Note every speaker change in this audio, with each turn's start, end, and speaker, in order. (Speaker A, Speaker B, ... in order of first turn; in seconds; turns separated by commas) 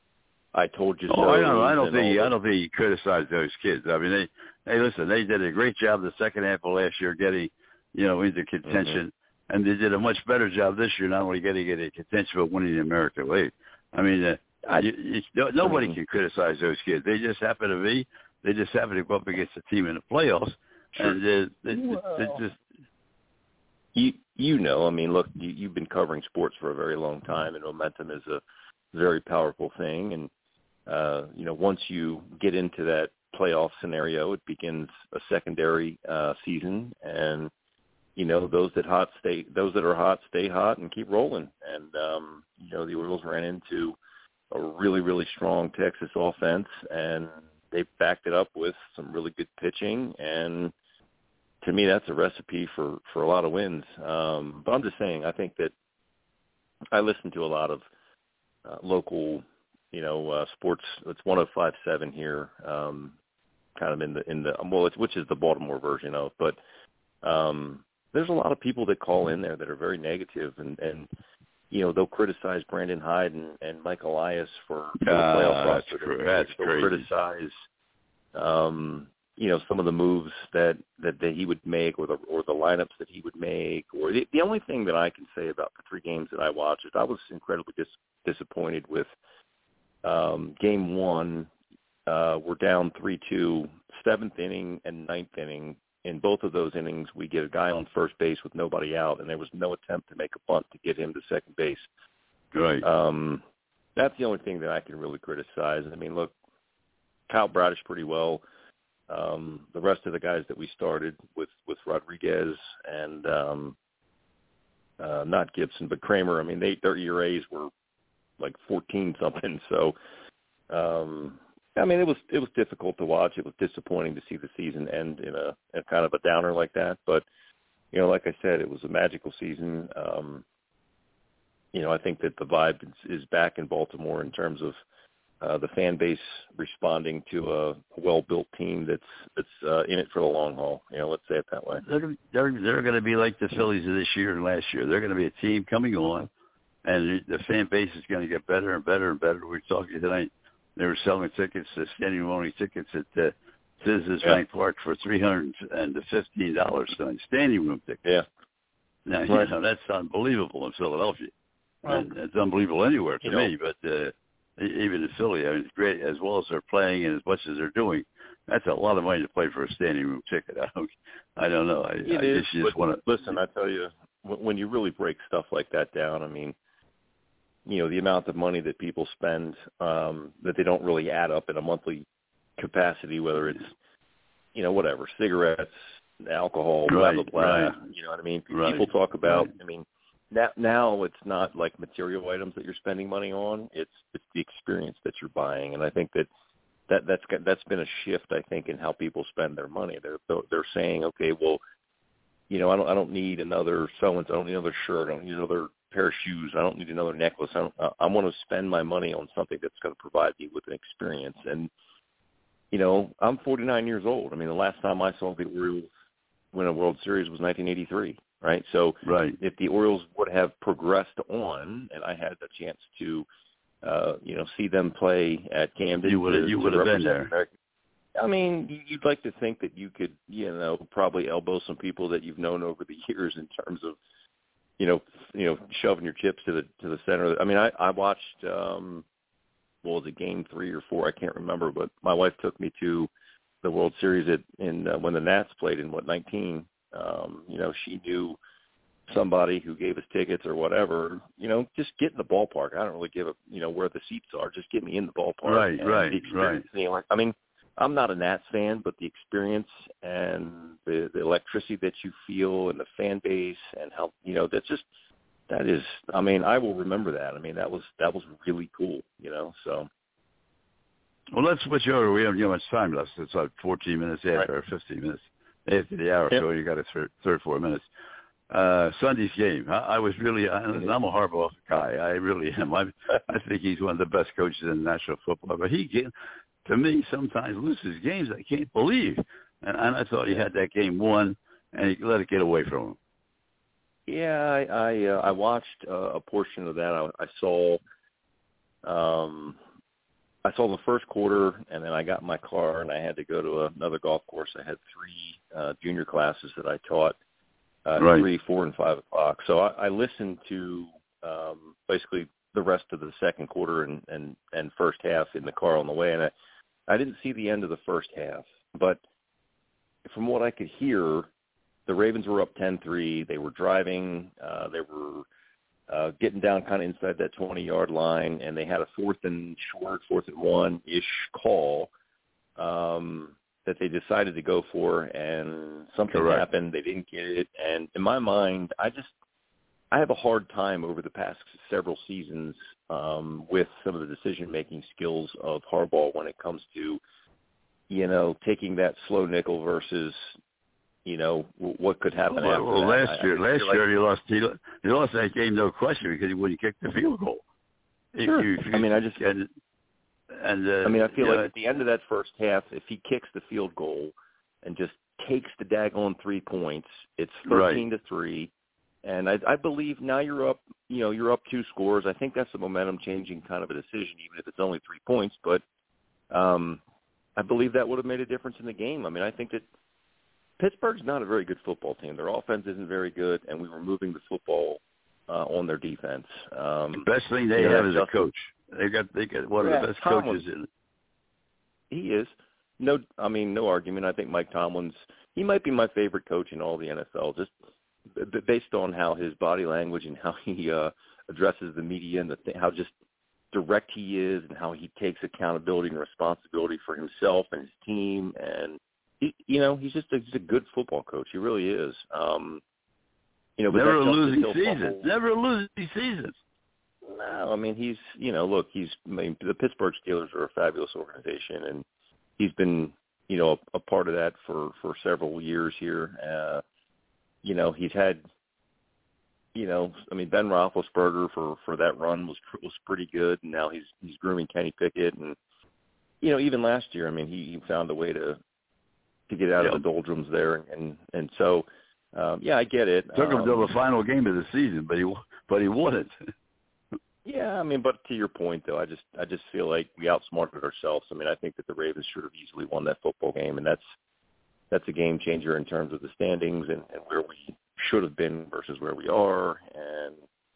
Speaker A: 0.5-2.3, Speaker B: 1.1-22.6, Speaker A: 8.7-9.0, Speaker A: 15.6-16.0, Speaker A: 21.7-22.4, Speaker A: 23.9-28.4, Speaker A: 28.9-30.3, Speaker A: 30.9-37.5, Speaker A: 38.1-44.0, Speaker A: 44.5-50.7, Speaker A: 51.6-55.7, Speaker A: 56.9-57.9, Speaker A: 58.6-63.1, Speaker A: 63.8-66.6, Speaker A: 67.2-71.1, Speaker A: 71.7-77.6, Speaker B: 75.0-77.1, Speaker A: 78.3-89.1, Speaker A: 90.0-91.5, Speaker A: 92.1-101.9, Speaker B: 102.5-102.8, Speaker A: 102.8-103.4, Speaker A: 104.0-106.3, Speaker A: 107.3-108.4, Speaker A: 109.1-113.8, Speaker A: 115.0-117.7, Speaker A: 118.4-119.9, Speaker A: 120.7-127.2, Speaker A: 127.9-130.4, Speaker A: 131.7-134.8, Speaker A: 135.4-141.8, Speaker B: 141.8-146.3, Speaker B: 146.8-158.0, Speaker B: 159.1-161.3, Speaker B: 161.8-173.0, Speaker A: 163.2-163.5, Speaker A: 172.0-176.6, Speaker A: 177.7-182.1, Speaker A: 182.6-183.7, Speaker A: 184.5-196.3, Speaker B: 186.9-187.8, Speaker B: 188.5-189.5, Speaker A: 196.9-201.6, Speaker A: 202.5-211.7, Speaker A: 212.7-215.9, Speaker A: 216.5-223.3, Speaker B: 219.0-219.3, Speaker A: 223.8-227.5, Speaker B: 226.0-227.3, Speaker A: 228.2-234.0, Speaker A: 234.8-239.0, Speaker A: 239.8-243.1, Speaker A: 243.6-248.4, Speaker A: 249.1-264.9, Speaker B: 255.4-256.6, Speaker A: 265.5-269.9, Speaker B: 271.3-277.9, Speaker B: 278.5-286.1, Speaker B: 286.6-293.0, Speaker A: 294.1-297.8, Speaker A: 298.8-299.6, Speaker A: 300.4-307.2, Speaker A: 307.8-316.3, Speaker B: 308.0-308.3, Speaker A: 316.9-319.0, Speaker A: 320.0-321.3, Speaker A: 321.9-325.2, Speaker A: 325.9-331.9, Speaker A: 332.6-339.1, Speaker B: 336.1-336.4, Speaker A: 339.9-347.0, Speaker A: 347.9-350.3, Speaker A: 351.0-353.8, Speaker B: 352.3-357.4, Speaker B: 358.1-359.5, Speaker A: 358.2-359.2, Speaker B: 360.3-361.5, Speaker A: 360.8-368.5, Speaker B: 367.5-367.8, Speaker A: 369.0-375.6, Speaker A: 376.3-376.8, Speaker A: 377.4-379.6, Speaker A: 380.6-388.2, Speaker B: 387.0-390.7, Speaker A: 389.6-390.4, Speaker A: 391.9-397.5, Speaker A: 398.1-402.9, Speaker A: 403.5-412.6, Speaker A: 413.6-415.1, Speaker B: 413.7-416.4, Speaker A: 417.0-421.8, Speaker A: 422.4-426.6, Speaker A: 427.4-428.2, Speaker A: 429.5-435.4, Speaker A: 436.2-438.4, Speaker A: 439.3-443.7, Speaker B: 443.1-446.1, Speaker A: 447.2-453.9, Speaker A: 454.7-460.2